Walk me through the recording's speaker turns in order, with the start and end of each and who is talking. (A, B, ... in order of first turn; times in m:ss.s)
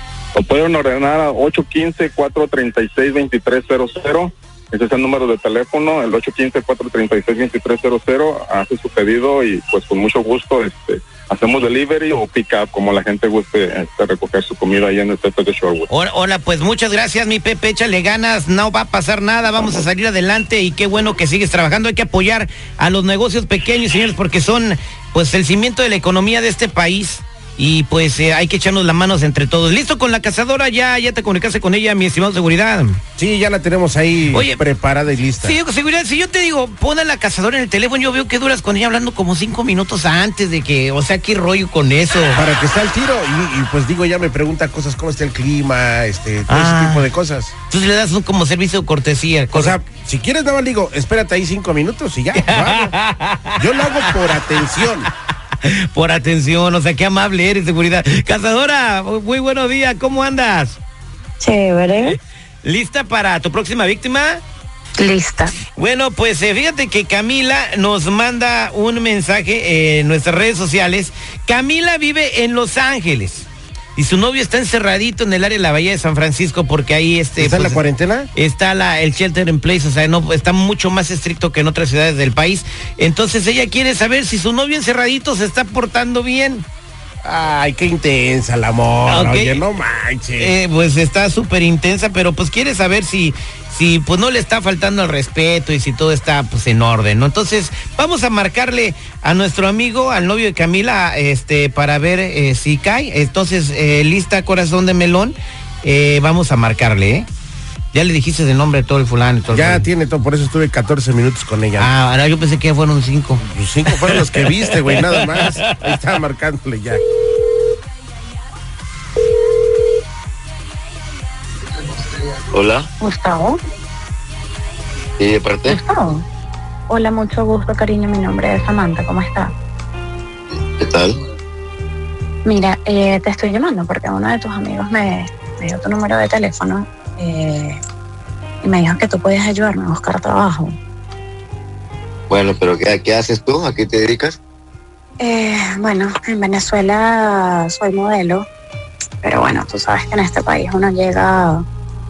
0:00.3-0:15.9 A
0:15.9-0:33.0 B
0:33.2-0:35.6 C
0:34.3-0:34.6 B
0:35.4-0:42.4 B
0:42.3-0:47.5 C
0:46.5-0:47.0 B
0:47.7-0:49.8 B
0:49.5-0:52.9 C
0:52.3-0:53.6 B
0:53.6-0:55.1 C
0:55.6-1:00.8 B
1:01.4-1:02.2 D
1:02.1-1:04.4 B
1:05.0-1:05.5 D
1:05.8-1:17.8 B
1:17.4-1:18.3 C
1:18.4-1:26.6 B
1:27.2-1:30.5 C
1:29.1-1:29.6 B
1:30.4-1:47.3 B
1:47.9-1:49.9 B
1:49.5-1:51.9 C
1:51.8-1:53.4 B
1:53.4-1:57.0 C
1:55.2-1:55.9 B
2:02.5-2:02.9 E
2:03.0-2:03.6 D
2:05.2-2:05.8 E
2:05.7-2:06.2 D
2:06.9-2:09.5 D
2:10.5-2:11.1 E
2:12.4-2:17.8 D
2:18.6-2:20.7 D
2:22.3-2:24.4 E
2:25.2-2:28.4 D
2:29.2-2:31.6 D